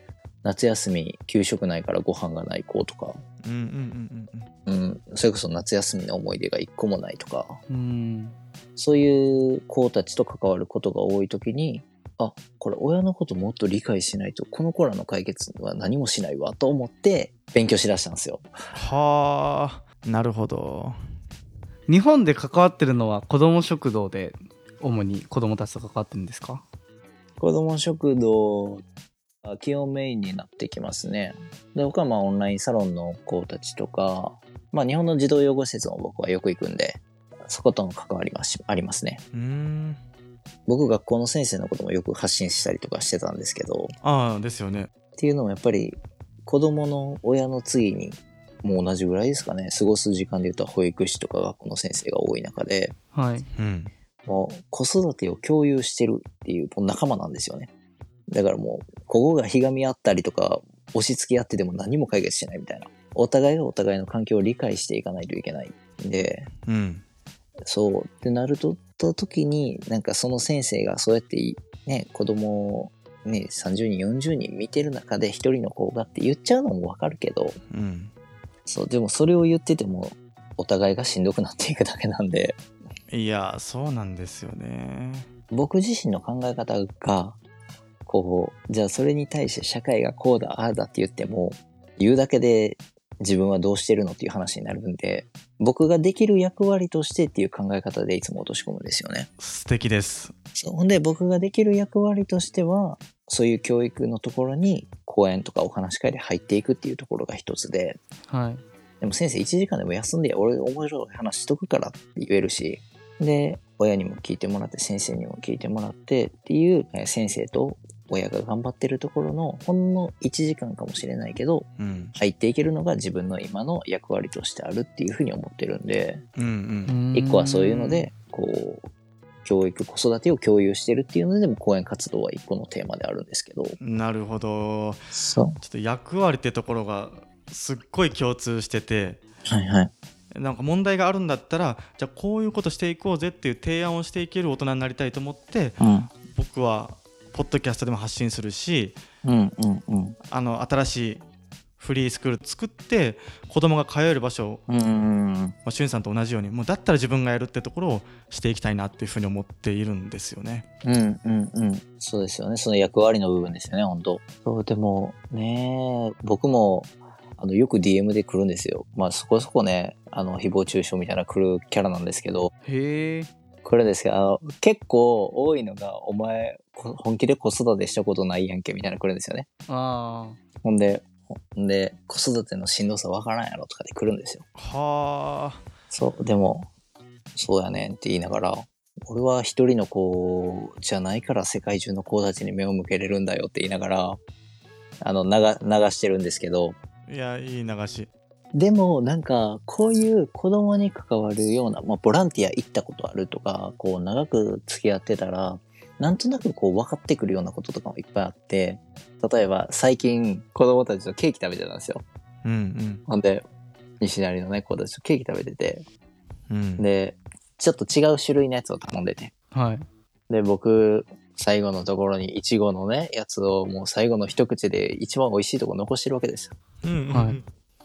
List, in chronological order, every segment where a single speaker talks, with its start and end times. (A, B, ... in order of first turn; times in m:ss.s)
0:00.4-0:03.2 A
0:03.4-0:04.5 B
0:04.6-0:07.6 A
0:07.7-0:08.4 C
0:08.8-0:18.5 A
0:18.7-0:21.0 B
0:21.9-0:26.6 C
0:27.4-0:28.8 A
0:29.4-0:39.2 A
0:39.3-0:40.0 B
0:40.7-0:44.0 A
0:44.0-0:44.9 B
0:45.2-0:53.0 A
0:53.1-0:53.5 C
0:53.6-0:53.9 B
0:54.2-0:57.7 A
0:58.3-1:06.5 A
1:06.6-1:07.0 B
1:07.6-1:17.6 A
1:17.7-1:18.1 B
1:18.6-1:22.6 A
1:23.1-1:25.3 B
1:25.5-1:27.4 A
1:28.1-1:39.3 A
1:39.4-1:40.3 B
1:40.5-1:48.0 A
1:48.3-1:48.6 C
1:49.0-2:06.2 A
2:01.8-2:02.1 B
2:06.4-2:07.0 B
2:06.9-2:08.1 C
2:07.1-2:08.9 A
2:09.4-2:13.8 A
2:13.8-2:19.2 B
2:15.1-2:15.6 A
2:19.5-2:19.9 A
2:20.3-2:29.0 B
2:25.8-2:26.1 A
2:29.2-2:30.2 A
2:30.3-2:31.2 B
2:31.8-2:34.6 B
2:34.7-2:35.5 A
2:35.6-2:40.6 B
2:40.8-2:52.5 A
2:52.6-2:53.3 C
2:53.6-2:59.5 A
2:59.7-3:00.4 C
3:00.6-3:04.4 A
3:04.6-3:05.6 B
3:05.9-3:06.7 A
3:07.4-3:14.2 A
3:15.0-3:16.8 A
3:17.1-3:18.1 B
3:18.5-3:32.0 A
3:32.4-3:33.0 B
3:33.1-3:33.4 A
3:34.0-3:35.9 A
3:36.5-3:36.9 B
3:36.8-3:39.3 A
3:39.5-3:39.8 C
3:40.3-3:46.5 A
3:46.8-3:47.4 B
3:47.1-3:47.4 C